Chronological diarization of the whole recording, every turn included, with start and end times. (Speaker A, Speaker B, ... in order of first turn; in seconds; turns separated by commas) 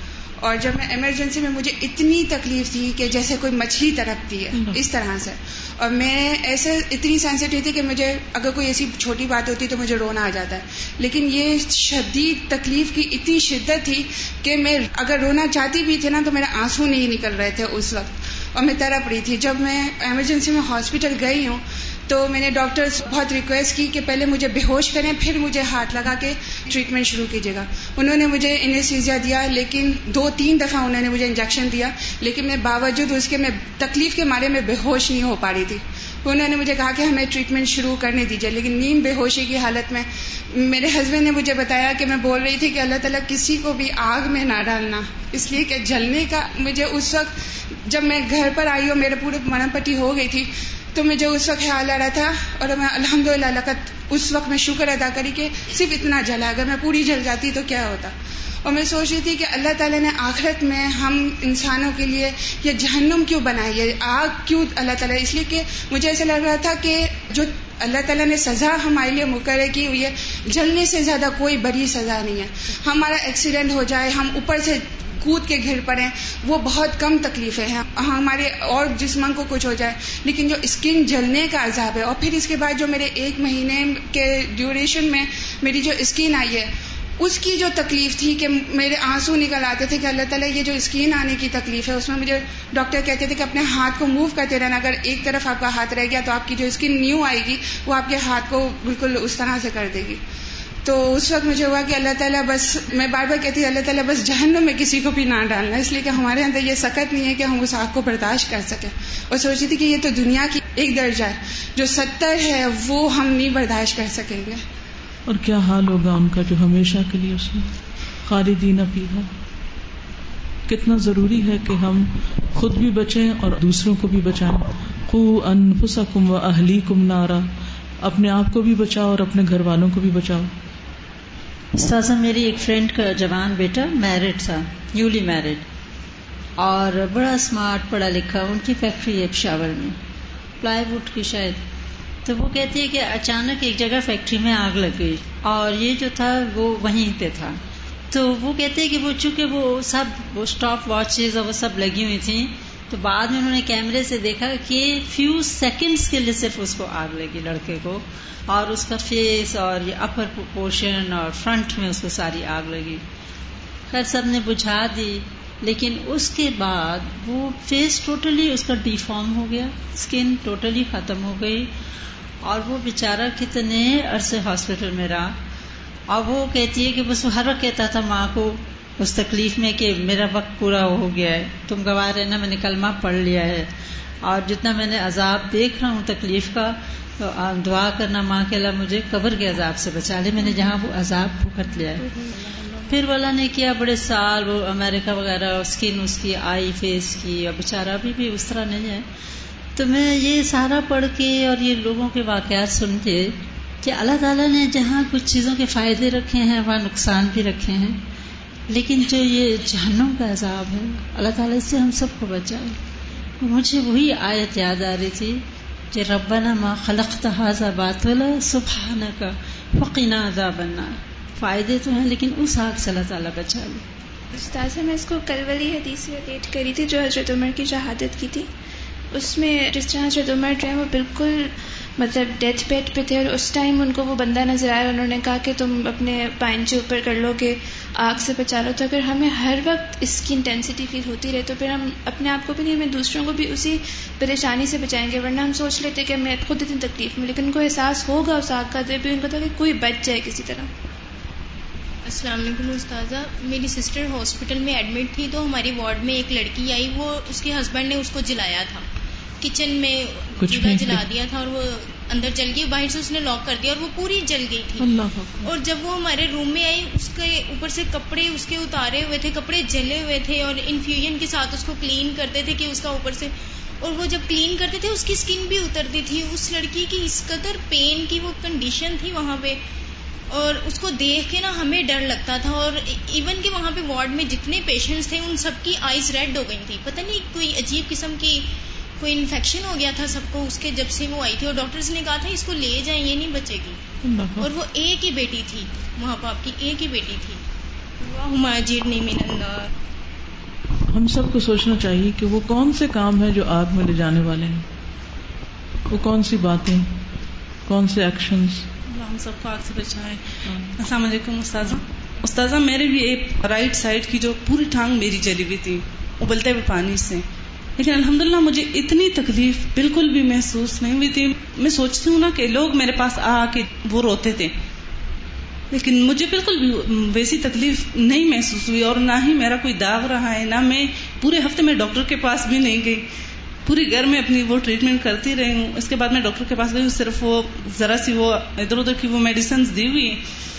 Speaker A: 0.4-100.2, Speaker B: 4.5-4.8, Speaker A: 100.8-114.6, Speaker B: 115.3-117.7, Speaker B: 118.3-119.3, Speaker B: 120.7-127.5, Speaker B: 128.0-130.5, Speaker C: 131.8-135.7, Speaker C: 136.6-140.0, Speaker C: 140.6-141.6, Speaker C: 142.3-147.6, Speaker C: 148.1-163.0, Speaker C: 163.9-171.7, Speaker C: 172.4-175.4, Speaker C: 176.1-183.7, Speaker C: 184.2-192.1, Speaker C: 192.9-199.1, Speaker C: 199.8-208.0, Speaker C: 208.7-212.8, Speaker C: 213.4-223.8, Speaker D: 224.3-228.5, Speaker D: 229.1-250.7, Speaker E: 252.1-258.9, Speaker E: 259.4-264.9, Speaker B: 260.4-261.0, Speaker B: 264.8-265.5, Speaker E: 265.4-279.6, Speaker E: 280.3-293.8, Speaker B: 294.0-294.5, Speaker E: 294.4-297.4, Speaker E: 298.0-299.7, Speaker B: 300.9-304.6, Speaker B: 305.9-306.9, Speaker B: 307.7-308.6, Speaker F: 308.9-317.2, Speaker B: 310.5-310.8, Speaker F: 317.8-324.5, Speaker F: 325.7-333.1, Speaker F: 333.7-340.2